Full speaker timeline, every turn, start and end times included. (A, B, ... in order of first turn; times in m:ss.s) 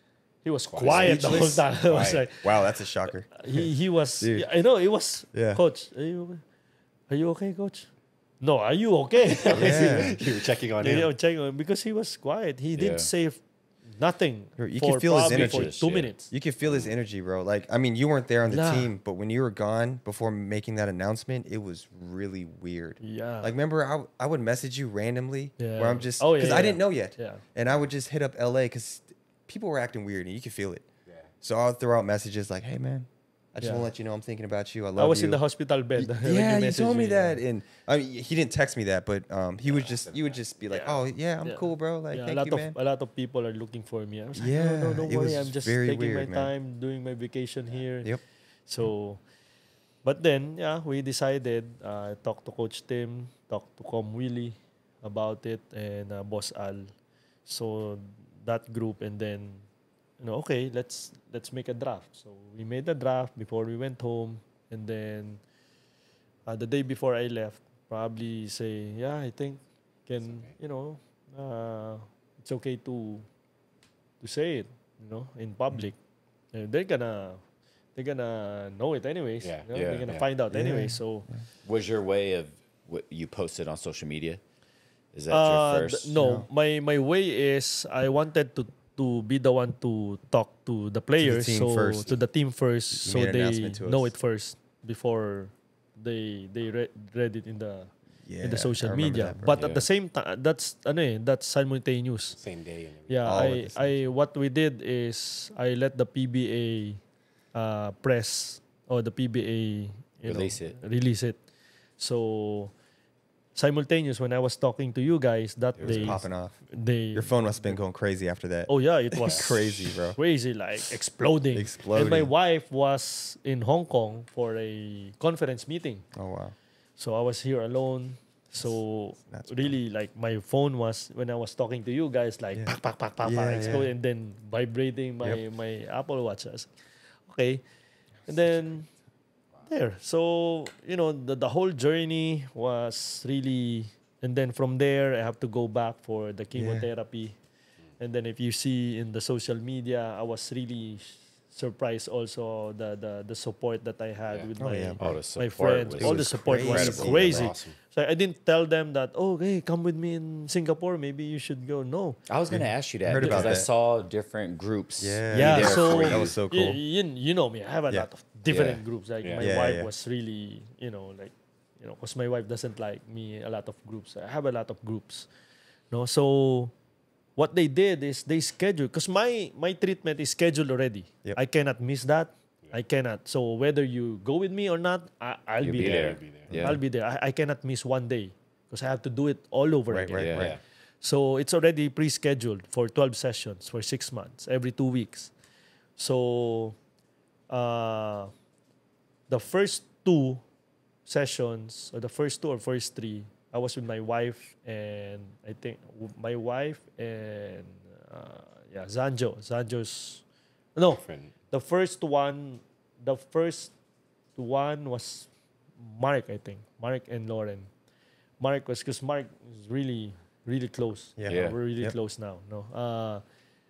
0:00.4-0:06.4 A
0:00.7-0:02.3 B
0:00.8-0:01.7 C
0:02.4-0:04.5 C
0:05.3-0:05.6 C
0:07.1-0:07.9 A
0:08.4-0:16.3 A
0:09.5-0:11.1 B
0:09.6-0:10.2 C
0:12.7-0:13.1 D
0:14.6-0:15.8 C
0:15.2-0:16.1 D
0:16.3-0:30.8 C
0:18.5-0:18.9 A
0:23.0-0:23.6 A
0:25.6-0:27.4 A
0:31.4-0:35.4 C
0:33.6-0:33.9 A
0:35.0-0:37.4 A
0:36.0-0:42.8 C
0:39.7-0:40.4 B
0:40.7-0:48.1 A
0:44.4-0:46.5 C
0:48.7-0:49.2 A
0:50.0-0:56.9 A
0:57.5-0:59.6 A
1:00.2-1:05.4 A
1:06.5-1:13.3 A
1:10.3-1:10.5 B
1:14.2-1:16.0 A
1:16.5-1:17.4 A
1:18.0-1:21.3 A
1:19.4-1:20.3 B
1:20.5-1:21.4 C
1:21.6-1:24.4 D
1:25.1-1:26.2 D
1:25.3-1:42.4 A
1:26.2-1:26.5 C
1:31.2-1:32.2 C
1:33.0-1:34.1 C
1:38.2-1:39.6 C
1:39.4-1:39.9 D
1:42.4-1:43.4 B
1:43.1-1:47.0 A
1:43.2-1:44.0 C
1:47.5-1:51.4 A
1:50.3-1:50.8 D
1:52.0-1:52.7 A
1:53.6-1:57.8 A
1:55.8-1:56.2 D
1:55.8-1:56.6 C
1:57.1-2:00.2 C
1:58.7-2:06.0 A
1:59.2-1:59.5 B
2:01.5-2:02.3 C
2:06.1-2:06.6 C
2:07.0-2:16.7 A
2:09.3-2:09.8 C
2:12.6-2:13.9 C
2:17.3-2:17.6 A
2:18.3-2:18.7 C
2:18.3-2:18.9 A
2:19.7-2:27.4 A
2:26.6-2:26.9 C
2:28.0-2:42.2 A
2:34.6-2:35.2 C
2:35.0-2:37.5 D
2:36.0-2:37.5 C
2:36.8-2:37.8 B
2:42.3-2:46.3 D
2:42.5-2:43.7 C
2:43.2-2:43.6 A
2:45.0-2:46.8 C
2:45.3-2:55.3 A
2:48.5-2:48.8 D
2:49.4-2:49.9 C
2:55.9-2:56.7 A
2:57.4-3:15.3 A
3:05.6-3:06.8 D
3:05.8-3:06.5 B
3:06.5-3:06.8 C
3:09.9-3:10.6 C
3:10.2-3:10.5 D
3:10.4-3:10.6 B
3:16.0-3:16.8 A
3:17.5-3:18.3 A
3:19.3-3:20.4 A
3:21.1-3:30.2 A
3:30.8-3:33.7 A
3:30.9-3:31.3 B
3:34.4-3:35.3 A
3:35.8-3:37.7 A
3:38.4-3:43.2 A
3:41.2-3:42.0 C
3:41.3-3:41.6 D